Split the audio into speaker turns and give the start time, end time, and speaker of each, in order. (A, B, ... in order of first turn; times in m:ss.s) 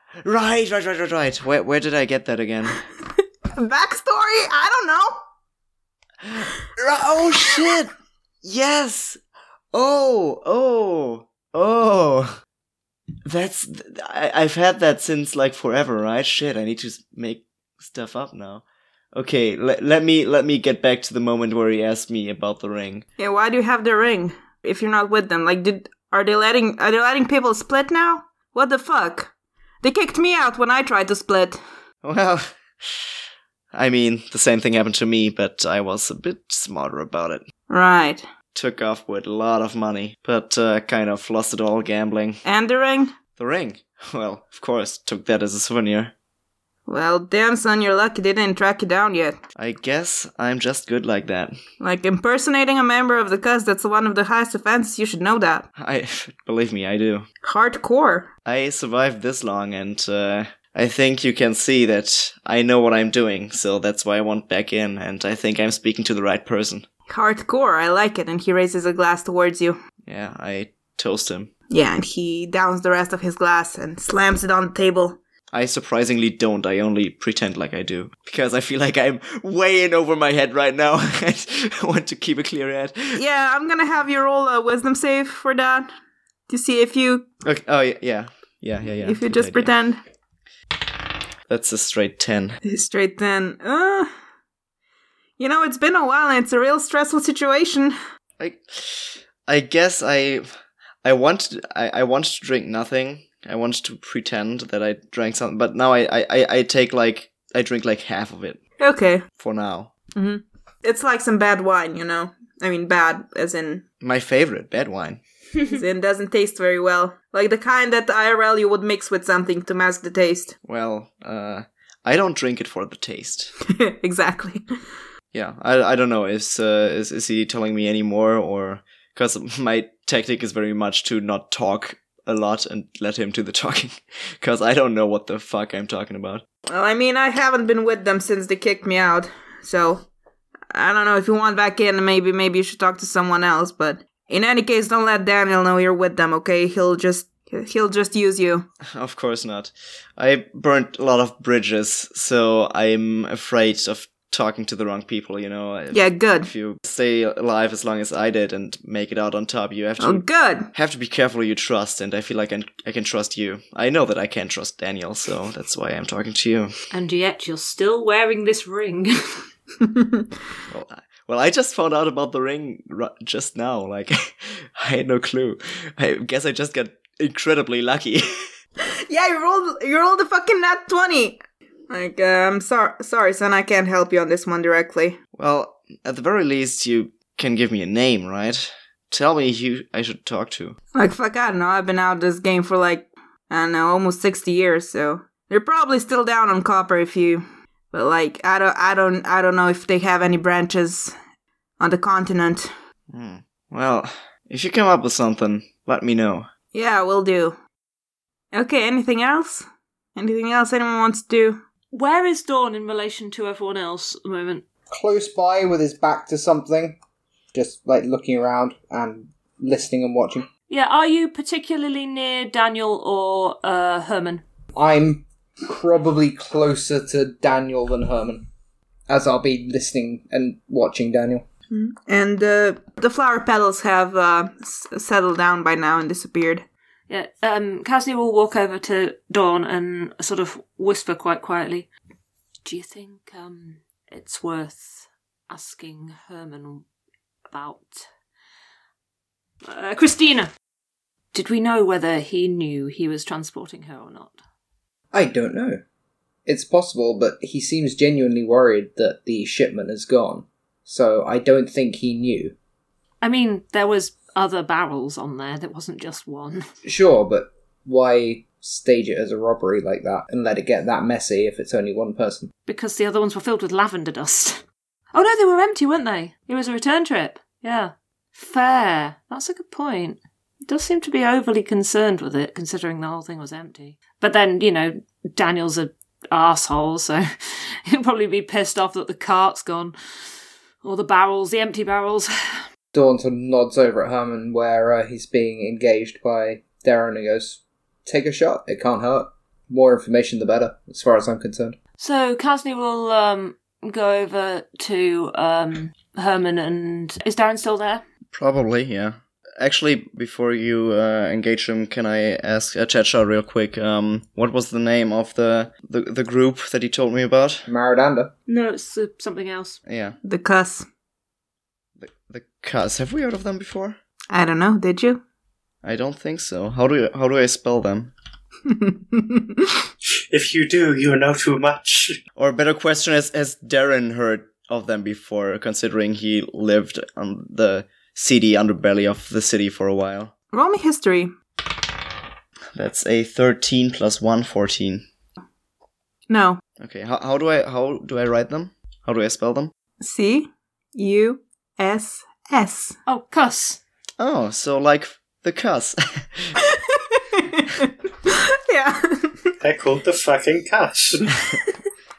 0:00.2-0:02.8 A
0:03.6-0:05.2 B
0:06.2-0:07.9 A
0:08.4-0:09.2 A
0:09.7-0:12.4 A
0:13.2-0:23.0 A
0:23.2-0:29.3 B
0:29.8-0:31.6 B
0:32.0-0:33.1 A
0:33.7-0:37.4 A
0:37.7-0:38.2 B
0:38.5-0:42.4 A
0:42.4-0:43.1 B
0:43.4-0:46.1 A
0:46.9-0:49.4 B
0:49.6-0:51.6 A
0:51.8-0:55.6 B
0:55.8-0:57.3 A
0:57.4-0:58.3 B
0:58.4-1:06.9 A
1:07.1-1:09.8 B
1:10.0-1:11.5 A
1:11.7-1:15.2 B
1:15.5-1:23.2 A
1:23.1-1:25.9 B
1:26.5-1:27.2 B
1:27.4-1:29.7 A
1:29.0-1:30.0 B
1:31.5-1:32.6 A
1:32.6-1:34.1 B
1:35.4-1:37.9 B
1:38.4-1:40.5 A
1:41.0-1:48.6 A
1:48.8-1:49.2 B
1:49.4-1:49.9 A
1:50.1-1:53.8 B
1:54.0-1:55.2 A
1:55.7-2:00.5 B
2:00.6-2:03.5 A
2:03.7-2:04.6 B
2:05.3-2:16.4 A
2:16.7-2:20.0 B
2:20.7-2:28.6 B
2:28.9-2:46.7 A
2:35.9-2:36.5 B
2:40.0-2:40.7 B
2:46.9-2:49.4 C
2:49.8-2:50.3 B
2:50.7-2:58.5 A
2:59.1-3:05.2 B
3:05.4-3:10.8 A
3:10.9-3:21.1 B
3:21.8-3:22.7 B
3:23.1-3:26.5 A
3:26.7-3:27.6 B
3:28.5-3:31.6 B
3:31.9-3:34.6 C
3:34.9-3:37.0 D
3:37.5-3:40.5 D
3:40.7-3:44.4 C
3:44.7-3:48.5 D
3:49.1-3:51.4 D
3:51.7-3:56.6 B
3:57.1-4:01.9 C
4:02.6-4:06.8 C
4:07.5-4:08.0 C
4:09.6-4:10.5 C
4:11.3-4:14.4 C
4:15.1-4:15.8 D
4:16.4-4:22.6 D
4:23.2-4:26.7 C
4:26.8-4:32.5 D
4:32.7-4:34.6 C
4:35.1-4:47.2 C
4:47.9-4:49.9 C
4:50.8-4:52.6 C
4:52.9-5:01.8 D
5:02.0-5:08.0 C
5:08.3-5:17.7 A
5:17.6-5:18.3 D
5:18.5-5:19.8 C
5:19.9-5:20.2 A
5:20.2-5:20.9 B
5:22.0-5:24.0 A
5:24.3-5:25.2 B
5:25.8-5:28.1 A
5:28.7-5:29.7 B
5:30.3-5:32.2 E
5:32.4-5:40.3 A
5:40.5-5:41.3 B
5:42.7-5:45.0 A
5:46.3-5:46.6 B
5:46.8-5:49.7 A
5:50.0-5:53.0 B
5:53.1-5:53.8 C
5:54.2-5:56.5 A
5:56.6-5:59.5 B
5:59.6-6:01.4 E